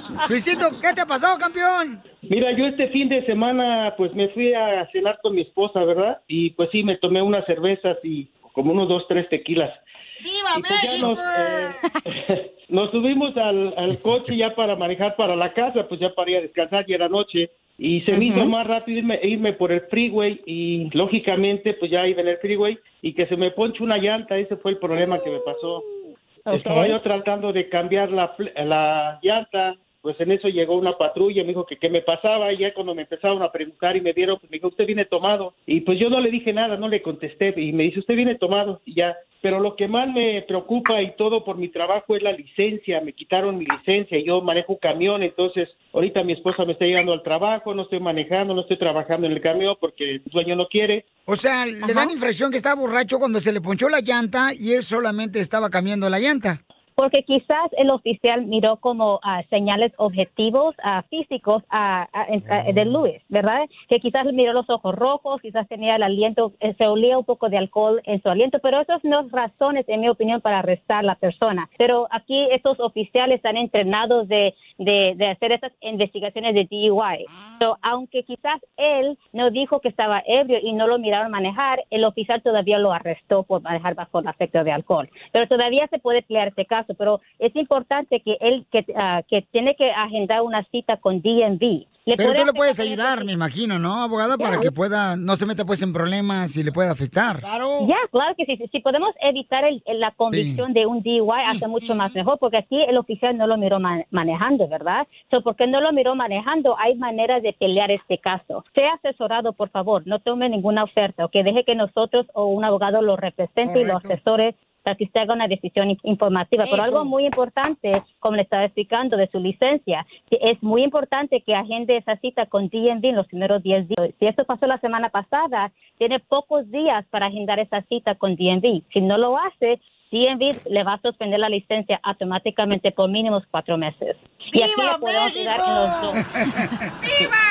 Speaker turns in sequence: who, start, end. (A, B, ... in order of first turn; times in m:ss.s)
0:00.2-0:02.0 A
0:02.3-0:09.8 B
0:10.3-0:11.6 A
0:10.5-0:25.8 B
0:18.1-0:18.5 C
0:26.5-0:27.0 C
0:26.5-0:51.0 B
0:51.3-0:56.6 A
0:57.0-1:33.3 C
1:02.5-1:02.9 A
1:32.2-1:37.9 A
1:34.4-1:34.7 C
1:37.8-2:16.2 C
1:40.3-1:40.6 A
1:41.5-1:42.1 A
1:53.6-1:54.2 A
1:56.6-1:57.1 A
2:14.5-2:16.7 A